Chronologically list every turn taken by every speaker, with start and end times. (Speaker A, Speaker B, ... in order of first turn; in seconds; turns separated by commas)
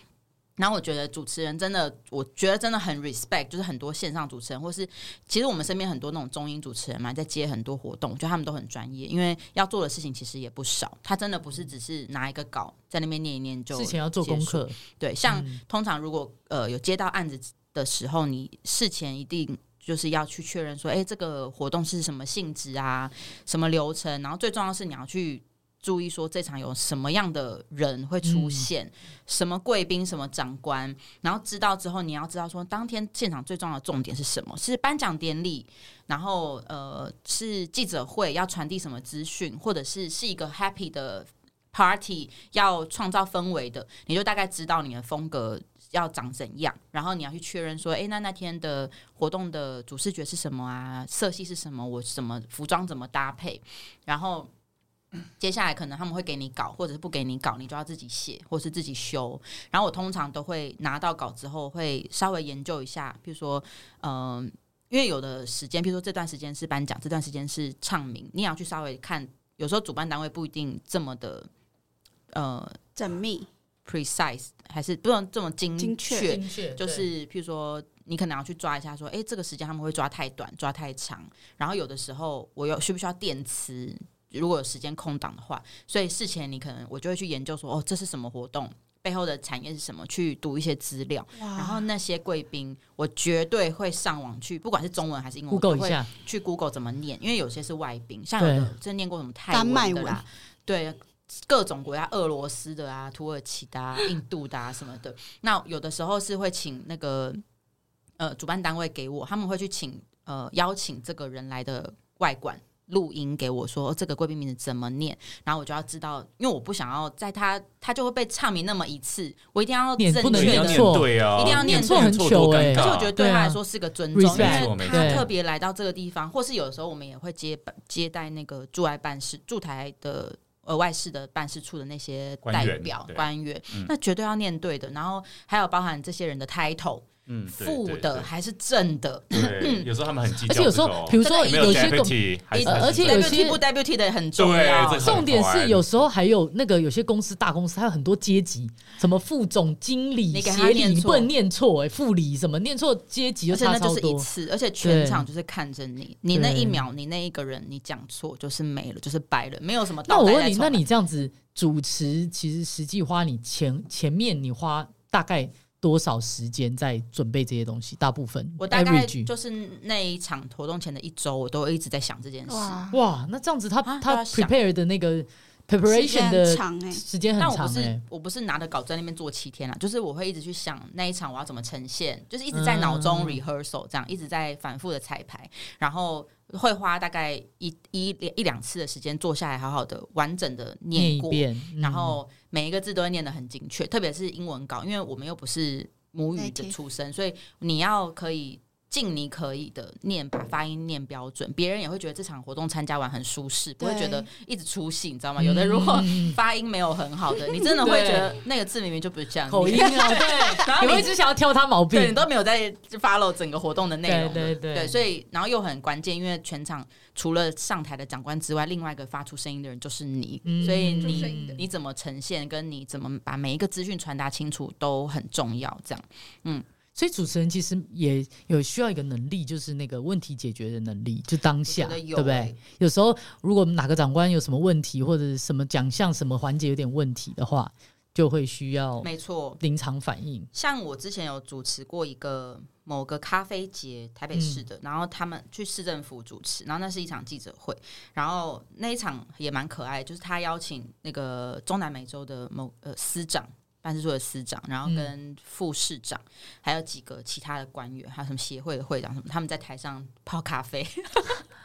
Speaker A: 0.6-54.5, Speaker B: 13.7-14.8, Speaker B: 15.3-15.6, Speaker B: 28.2-28.6, Speaker A: 55.4-71.5, Speaker A: 72.3-72.8, Speaker C: 73.0-73.5, Speaker A: 73.8-107.4, Speaker C: 75.8-76.3, Speaker B: 76.2-77.1, Speaker C: 91.3-91.8, Speaker B: 95.5-96.1, Speaker B: 98.4-98.7, Speaker C: 99.5-100.2, Speaker A: 108.2-139.9, Speaker B: 120.0-123.6, Speaker D: 120.3-123.1, Speaker B: 124.1-125.2, Speaker D: 124.3-125.3, Speaker D: 132.4-133.9, Speaker D: 137.3-138.3, Speaker D: 139.3-143.5, Speaker B: 140.5-143.6, Speaker A: 141.2-145.3, Speaker D: 144.4-145.9, Speaker B: 145.0-154.2, Speaker A: 150.3-151.3, Speaker A: 153.5-160.8, Speaker B: 154.8-155.2, Speaker B: 156.3-156.8, Speaker B: 160.1-169.3, Speaker A: 168.6-172.8, Speaker C: 172.5-173.0, Speaker B: 172.9-178.0, Speaker A: 173.8-174.5, Speaker C: 175.8-177.0, Speaker A: 177.4-211.1, Speaker B: 182.5-183.4, Speaker B: 190.9-192.2, Speaker C: 196.3-196.7, Speaker C: 203.8-204.3, Speaker B: 205.4-206.4, Speaker B: 207.8-208.3, Speaker B: 209.5-212.2, Speaker C: 209.8-210.9, Speaker A: 211.9-226.6, Speaker B: 214.1-214.9, Speaker B: 220.4-221.6, Speaker C: 220.6-221.6, Speaker B: 226.9-239.1, Speaker A: 231.7-232.6, Speaker A: 239.0-239.6, Speaker B: 239.6-240.5, Speaker A: 240.5-261.4, Speaker B: 244.3-244.6